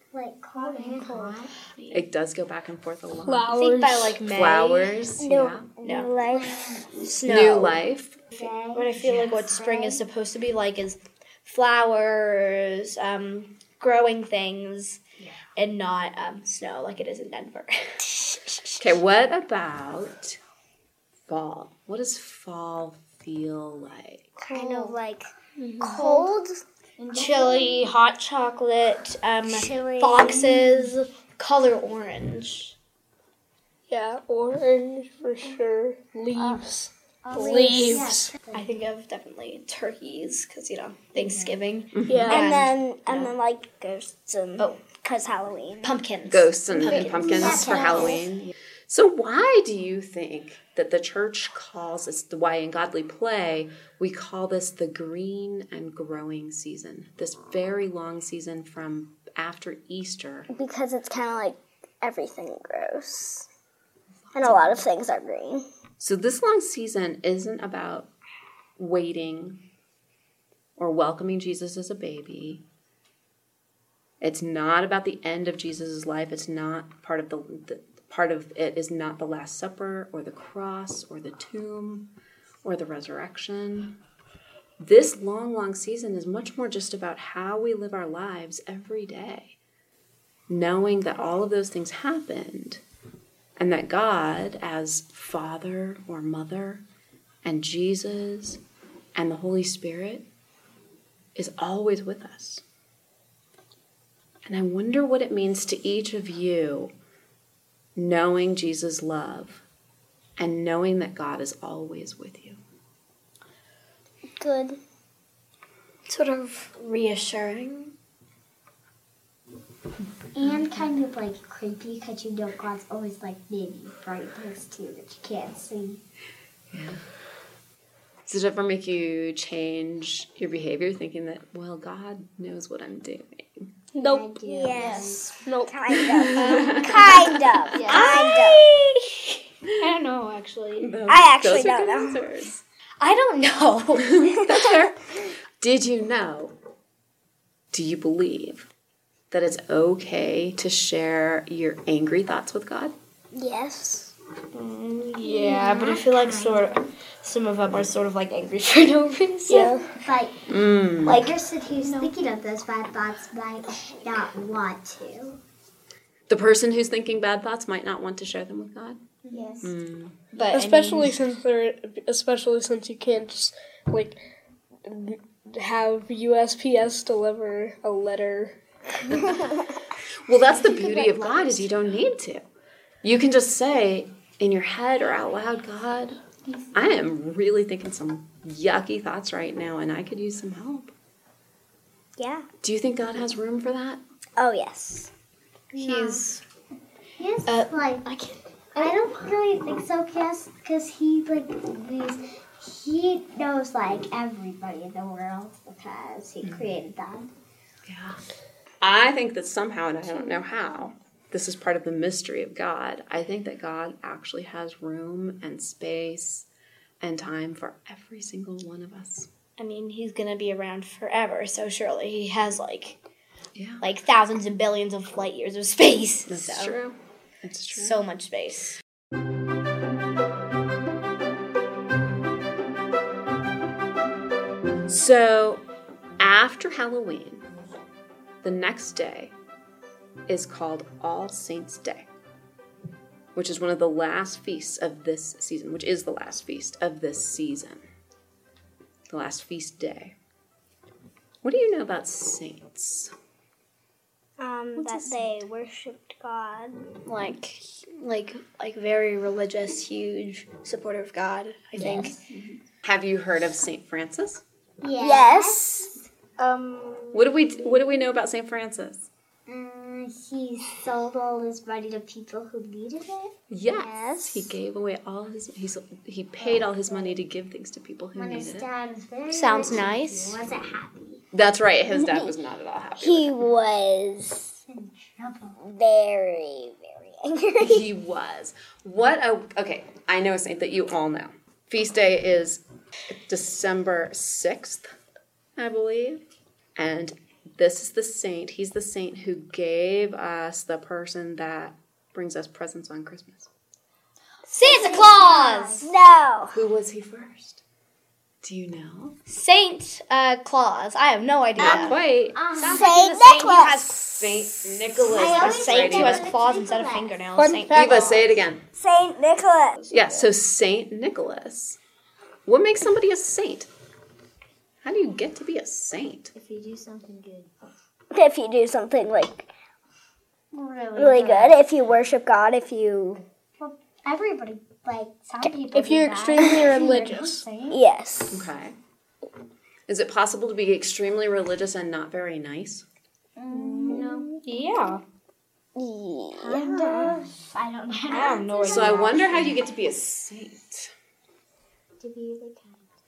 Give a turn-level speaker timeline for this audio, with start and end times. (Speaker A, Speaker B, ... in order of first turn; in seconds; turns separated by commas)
Speaker A: 0.1-1.5, Speaker B: 0.6-2.0, Speaker C: 1.9-3.5, Speaker D: 3.2-4.2, Speaker B: 3.5-5.0, Speaker C: 4.3-5.7, Speaker E: 5.2-6.8, Speaker B: 5.8-6.1, Speaker A: 6.2-7.0, Speaker B: 7.0-7.8, Speaker C: 7.2-8.2, Speaker A: 8.3-10.0, Speaker B: 8.4-15.0, Speaker C: 9.0-9.2, Speaker C: 15.2-15.5, Speaker B: 15.6-18.6, Speaker C: 18.8-20.4, Speaker C: 21.3-24.3, Speaker B: 24.4-24.9, Speaker A: 24.5-25.2, Speaker E: 24.5-25.0, Speaker B: 25.6-26.3, Speaker A: 25.8-26.4, Speaker E: 25.9-26.6, Speaker A: 27.0-27.9, Speaker B: 27.1-32.7, Speaker A: 29.5-30.9, Speaker D: 33.9-38.4, Speaker A: 36.3-36.6, Speaker A: 37.2-38.7, Speaker B: 38.5-43.3, Speaker A: 41.1-41.6, Speaker C: 41.9-42.3, Speaker D: 42.1-42.5, Speaker E: 42.3-45.9, Speaker B: 44.6-44.9, Speaker B: 45.8-48.2, Speaker C: 46.3-60.5, Speaker A: 46.8-48.2, Speaker E: 60.5-63.5, Speaker C: 64.3-64.8, Speaker E: 64.3-65.6, Speaker C: 66.0-68.1, Speaker C: 68.8-69.6, Speaker C: 70.8-72.6, Speaker C: 74.2-82.1, Speaker C: 82.6-84.0, Speaker C: 84.8-89.6, Speaker C: 90.5-92.8, Speaker C: 93.6-96.8, Speaker C: 97.4-98.6, Speaker C: 99.2-100.3, Speaker C: 101.3-102.6, Speaker C: 104.5-106.9, Speaker C: 108.0-109.6, Speaker C: 110.4-112.6, Speaker E: 114.5-114.8, Speaker B: 116.1-117.9, Speaker A: 120.3-126.0, Speaker C: 126.7-127.0, Speaker C: 128.3-133.7, Speaker A: 133.9-135.3, Speaker D: 134.0-134.6, Speaker E: 134.5-135.1, Speaker B: 134.7-135.4, Speaker D: 135.3-136.3, Speaker E: 135.6-138.7, Speaker C: 136.0-138.9, Speaker B: 136.3-137.0, Speaker B: 137.7-138.3, Speaker B: 139.7-140.9, Speaker C: 140.8-142.5, Speaker E: 141.1-142.2, Speaker B: 142.5-144.1, Speaker C: 143.9-146.5, Speaker C: 147.7-148.7, Speaker C: 149.3-152.9, Speaker E: 153.3-154.1, Speaker B: 154.5-159.8, Speaker A: 155.2-156.7, Speaker D: 159.5-159.9, Speaker A: 159.9-160.4, Speaker C: 160.5-161.3, Speaker B: 161.0-162.1, Speaker A: 161.1-165.4, Speaker C: 166.3-169.0, Speaker B: 169.2-169.6, Speaker A: 169.3-169.7, Speaker C: 169.6-170.2, Speaker B: 170.3-171.2, Speaker D: 170.5-174.2, Speaker D: 174.9-178.6, Speaker C: 180.3-182.4, Speaker A: 180.5-181.7, Speaker C: 183.0-186.2, Speaker A: 186.5-186.8, Speaker C: 186.7-190.9, Speaker E: 192.2-192.4, Speaker C: 192.6-194.0, Speaker E: 194.4-195.1, Speaker A: 195.7-196.3, Speaker B: 195.7-196.4, Speaker A: 197.2-198.1, Speaker B: 197.5-198.9, Speaker A: 198.8-207.3, Speaker C: 206.4-206.8, Speaker C: 207.8-208.2, Speaker C: 208.8-216.5, Speaker C: 217.0-219.3, Speaker B: 219.6-223.0, Speaker C: 223.5-223.8, Speaker B: 223.8-226.8, Speaker C: 226.3-228.0, Speaker B: 227.7-228.8, Speaker C: 234.9-235.6, Speaker C: 236.2-237.4, Speaker C: 238.4-239.3, Speaker C: 240.3-242.1, Speaker C: 243.3-247.8, Speaker C: 249.1-250.2, Speaker C: 251.4-253.1, Speaker E: 254.4-256.8, Speaker B: 254.9-255.2, Speaker B: 257.0-262.1, Speaker C: 261.7-264.4, Speaker A: 261.8-262.1, Speaker A: 264.8-265.9, Speaker E: 265.0-265.9, Speaker B: 266.4-268.0, Speaker C: 267.1-269.1, Speaker A: 269.5-274.1, Speaker C: 273.5-278.7, Speaker E: 273.9-274.5, Speaker A: 276.4-277.2, Speaker A: 278.1-281.2, Speaker B: 279.3-280.4, Speaker C: 281.3-283.3, Speaker E: 281.9-282.3, Speaker E: 283.0-284.6, Speaker A: 284.7-285.6, Speaker E: 285.6-287.9, Speaker C: 287.6-294.9, Speaker C: 295.6-296.2, Speaker C: 296.8-303.5, Speaker B: 304.4-305.9, Speaker A: 304.5-305.9, Speaker E: 305.8-306.6, Speaker C: 306.5-307.6, Speaker C: 308.4-309.1, Speaker B: 309.2-312.0, Speaker C: 311.6-312.4, Speaker A: 311.8-312.9, Speaker B: 312.5-317.9, Speaker E: 312.7-314.0, Speaker C: 314.2-316.3, Speaker A: 315.0-317.2, Speaker D: 317.3-318.3, Speaker C: 317.7-318.6, Speaker E: 318.7-319.8, Speaker C: 319.9-321.8, Speaker C: 322.4-323.7, Speaker C: 324.8-326.3, Speaker A: 326.3-327.5, Speaker E: 328.1-329.4, Speaker A: 330.5-331.4, Speaker B: 330.8-331.6, Speaker E: 331.0-333.2, Speaker A: 333.6-337.8, Speaker D: 335.7-337.5, Speaker E: 336.4-336.7, Speaker E: 337.7-338.5, Speaker C: 338.3-338.7, Speaker C: 339.9-342.8, Speaker A: 343.4-344.4, Speaker B: 343.5-345.0, Speaker E: 343.8-344.4, Speaker E: 345.8-347.1, Speaker A: 346.3-349.5, Speaker B: 348.1-349.5, Speaker C: 348.6-350.9, Speaker A: 352.0-352.9